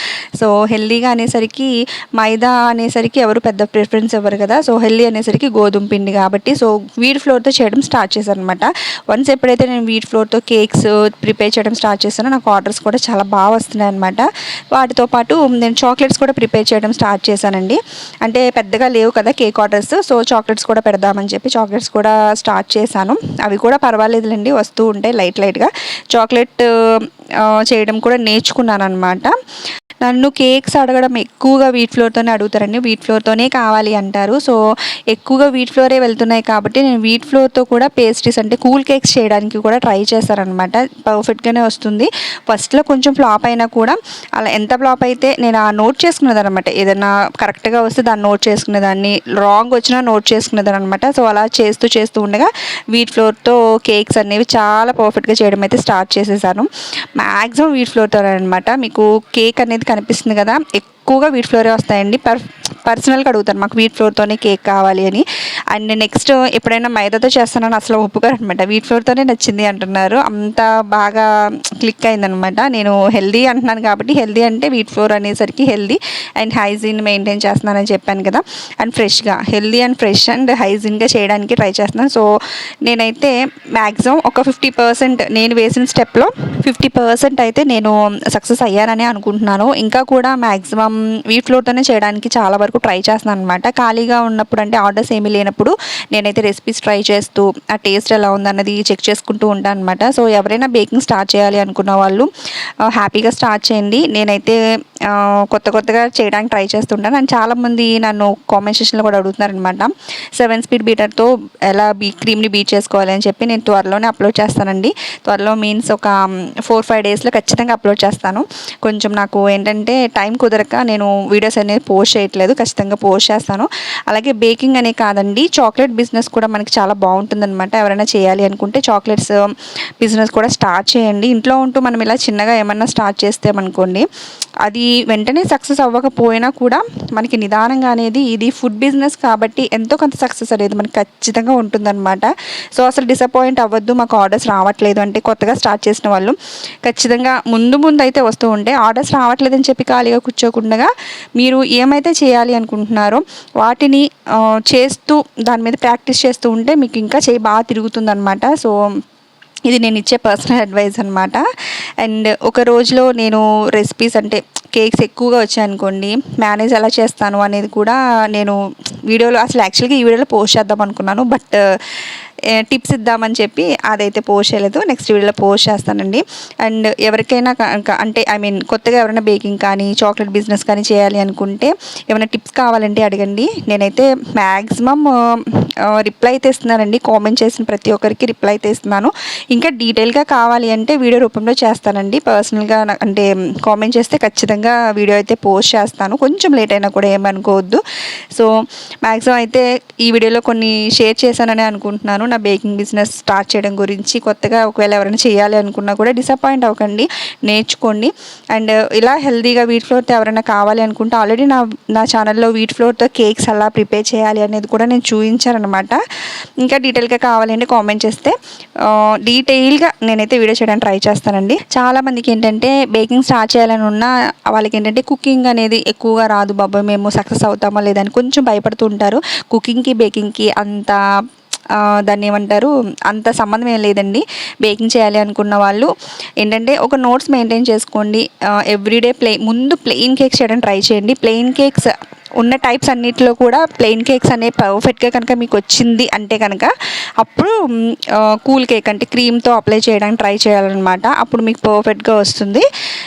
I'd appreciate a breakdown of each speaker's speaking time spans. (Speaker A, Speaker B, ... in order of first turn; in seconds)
Speaker A: 0.4-29.3, 30.0-34.6, 35.1-71.3, 71.8-82.2, 82.8-102.3, 102.9-129.4, 130.0-134.1, 134.6-158.8, 159.7-161.4, 162.0-168.6, 169.1-172.0, 172.6-197.8, 199.0-216.0, 216.6-231.0, 231.8-235.9, 236.4-252.6